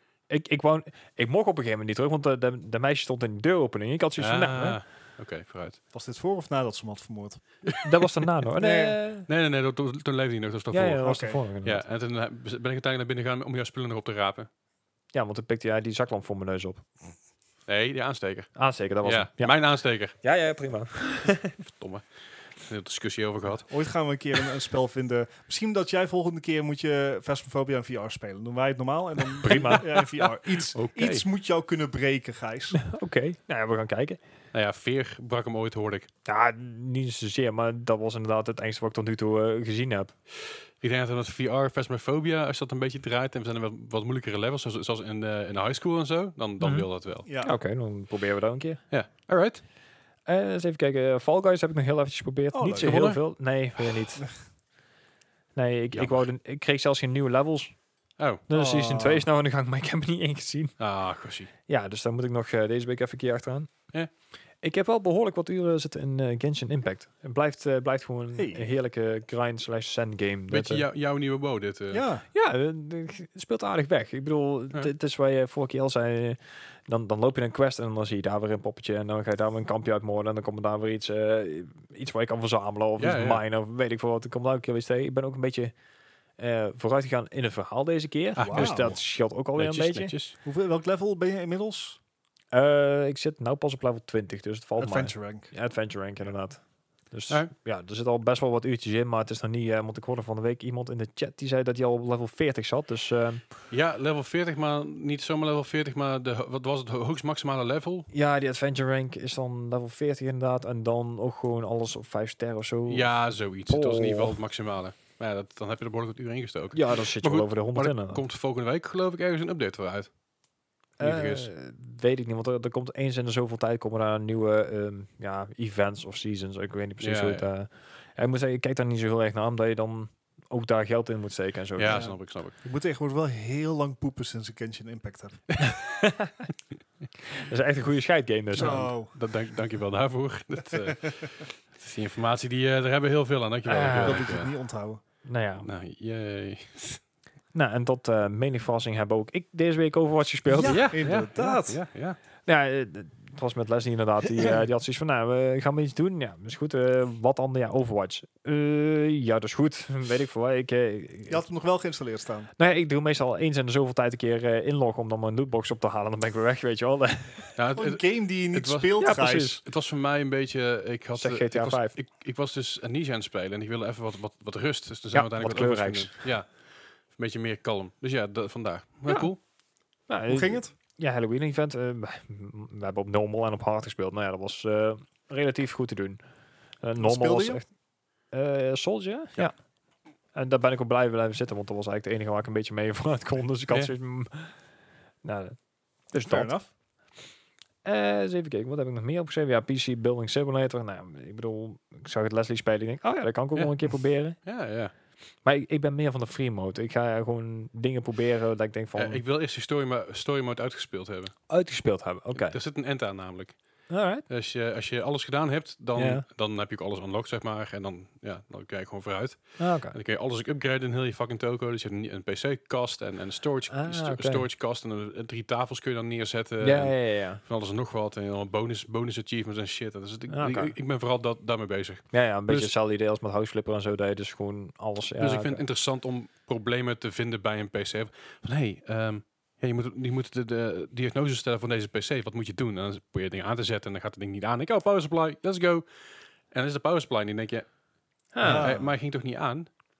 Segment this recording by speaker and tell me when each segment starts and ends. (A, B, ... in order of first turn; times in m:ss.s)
0:00.3-0:04.8 A
0:04.2-0:05.8 B
0:05.9-0:07.5 C
0:07.6-0:07.9 B
0:07.8-0:09.3 A
0:08.6-0:09.0 C
0:09.2-0:11.1 B
0:10.7-0:11.8 A
0:11.0-0:11.4 C
0:11.6-0:14.5 B
0:15.1-0:16.9 A
0:17.6-0:20.1 B
0:18.5-0:19.5 A
0:20.1-0:21.6 A
0:21.6-0:23.7 B
0:23.7-0:32.8 C
0:29.4-0:31.2 B
0:29.5-0:29.8 A
0:32.8-0:34.2 A
0:34.5-0:36.1 B
0:36.2-0:40.1 A
0:40.8-0:47.2 B
0:46.6-0:46.9 A
0:47.2-0:47.5 C
0:47.4-0:48.8 A
0:48.9-0:49.6 B
0:50.2-0:54.3 A
0:52.5-0:53.1 C
0:52.8-0:53.2 B
0:55.5-0:57.8 A
0:55.9-0:56.2 B
0:58.2-0:58.4 B
0:58.5-1:00.7 A
0:58.5-0:59.2 C
1:00.8-1:01.5 B
1:01.7-1:03.7 A
1:04.6-1:10.8 A
1:08.3-1:08.7 C
1:10.5-1:12.0 B
1:11.9-1:12.2 C
1:12.3-1:25.7 A
1:23.0-1:23.4 B
1:26.4-1:30.1 A
1:28.3-1:29.0 B
1:28.4-1:28.9 C
1:29.5-1:30.3 B
1:30.4-1:32.0 C
1:32.5-1:43.4 A
1:34.8-1:35.5 C
1:43.7-1:48.1 B
1:48.1-1:54.4 A
1:52.9-2:00.1 B
1:56.7-1:58.2 A
2:01.0-2:12.0 A
2:01.0-2:01.5 B
2:07.0-2:07.4 B
2:11.8-2:12.6 B
2:11.8-2:15.6 C
2:15.6-2:16.5 A
2:17.3-2:18.9 A
2:18.5-2:19.2 C
2:18.5-2:24.5 B
2:23.6-2:24.4 A
2:24.0-2:25.0 C
2:25.2-2:25.7 A
2:25.6-2:27.0 B
2:27.5-2:31.5 A
2:30.5-2:31.8 C
2:30.6-2:32.2 B
2:32.4-2:41.4 A
2:41.3-2:42.5 C
2:42.6-2:47.5 A
2:47.5-2:59.4 B
2:47.8-2:49.6 C
2:49.0-2:49.6 A
2:51.1-2:51.9 A
2:55.1-2:56.3 A
2:59.1-2:59.3 A
3:00.1-3:06.2 A
3:00.3-3:00.7 C
3:06.8-3:07.7 A
3:07.0-3:07.6 C
3:08.3-3:09.5 A
3:10.3-3:14.5 A
3:15.2-3:15.6 A
3:16.1-3:16.5 A
3:16.2-3:16.7 C
3:17.8-3:24.4 A
3:23.5-3:24.9 B
3:25.4-3:29.2 A
3:28.9-3:31.3 B
3:31.5-3:32.6 A
3:32.3-3:33.6 B
3:33.9-3:34.2 A
3:34.3-3:52.7 B
3:35.9-3:36.2 A
3:39.6-3:40.0 A
3:43.7-3:44.4 A
3:46.6-3:47.4 A
3:50.3-3:50.7 A
3:52.1-3:55.6 A
3:55.2-4:05.9 B
4:06.5-4:07.7 B
4:08.3-4:08.7 A
4:08.4-4:09.7 B
4:08.4-4:08.9 C